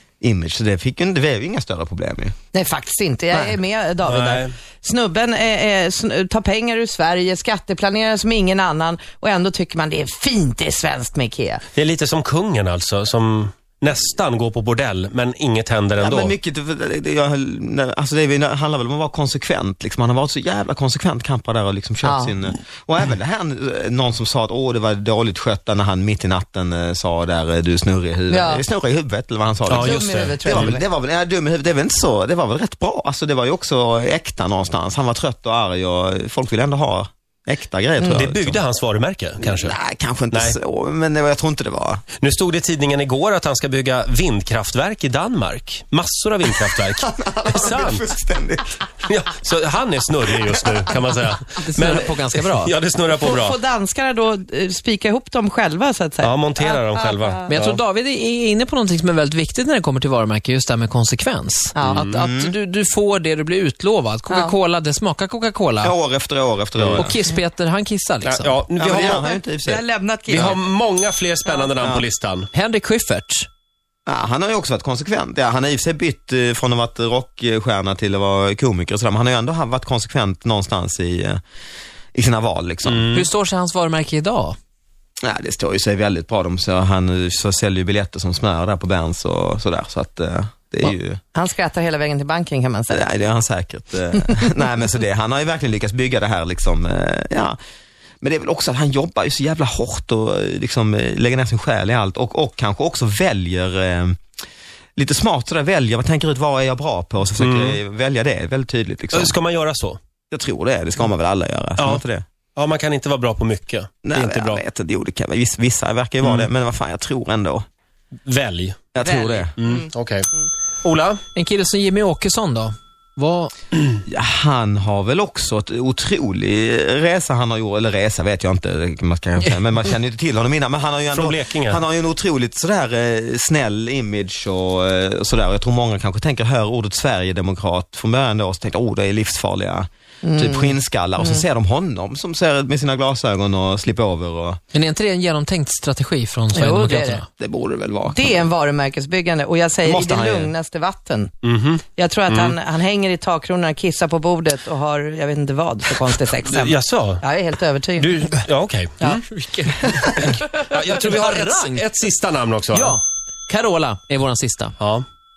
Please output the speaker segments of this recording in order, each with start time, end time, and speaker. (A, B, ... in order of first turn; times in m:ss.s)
0:00.2-0:02.4 A
0:02.5-0:11.6 B
0:04.0-0:04.5 C
0:11.8-0:16.4 C
0:16.0-0:38.6 A
0:22.0-0:22.3 B
0:28.3-0:28.6 B
0:29.7-0:30.8 C
0:29.8-0:30.8 B
0:38.0-0:38.2 B
0:38.1-0:39.8 C
0:39.4-0:42.0 A
0:42.2-0:48.0 C
0:47.0-0:48.8 A
0:49.0-0:53.6 C
0:51.6-0:52.7 D
0:53.1-0:57.5 B
0:56.2-0:57.8 C
0:57.5-1:06.0 D
1:01.8-1:02.0 B
1:01.8-1:02.2 C
1:02.0-1:02.5 A
1:04.3-1:04.6 B
1:05.8-1:07.1 A
1:06.8-1:07.1 C
1:06.9-1:08.6 D
1:08.2-1:09.3 C
1:08.8-1:09.8 A
1:08.9-1:10.6 B
1:10.3-1:12.5 C
1:11.5-1:11.7 B
1:12.5-1:13.5 D
1:14.1-1:21.4 A
1:22.1-1:23.2 A
1:22.8-1:23.3 C
1:23.1-1:24.6 D
1:25.2-1:31.2 A
1:31.3-1:33.1 B
1:32.9-1:37.6 A
1:34.2-1:34.4 B
1:38.2-1:44.2 A
1:45.0-1:49.4 A
1:47.4-1:47.8 C
1:49.1-1:50.0 C
1:50.3-1:52.2 A
1:51.8-1:52.0 C
1:52.6-1:54.6 C
1:54.0-1:57.6 A
1:56.2-1:56.5 C
1:58.3-1:58.9 C
1:58.9-1:59.6 A
1:59.0-1:59.9 B
1:59.6-2:00.3 C
2:00.8-2:01.2 C
2:01.3-2:03.5 D
2:04.1-2:24.6 A
2:11.1-2:11.8 C
2:20.2-2:21.4 B
2:24.7-2:27.2 D
2:26.5-2:27.2 B
2:27.3-2:28.5 A
2:28.1-2:31.3 B
2:29.8-2:30.5 A
2:31.4-2:32.6 C
2:32.0-2:38.3 B
2:36.4-2:37.2 C
2:38.0-2:39.2 C
2:39.1-2:42.1 D
2:40.2-2:43.0 C
2:42.7-2:44.8 D
2:44.8-2:45.0 C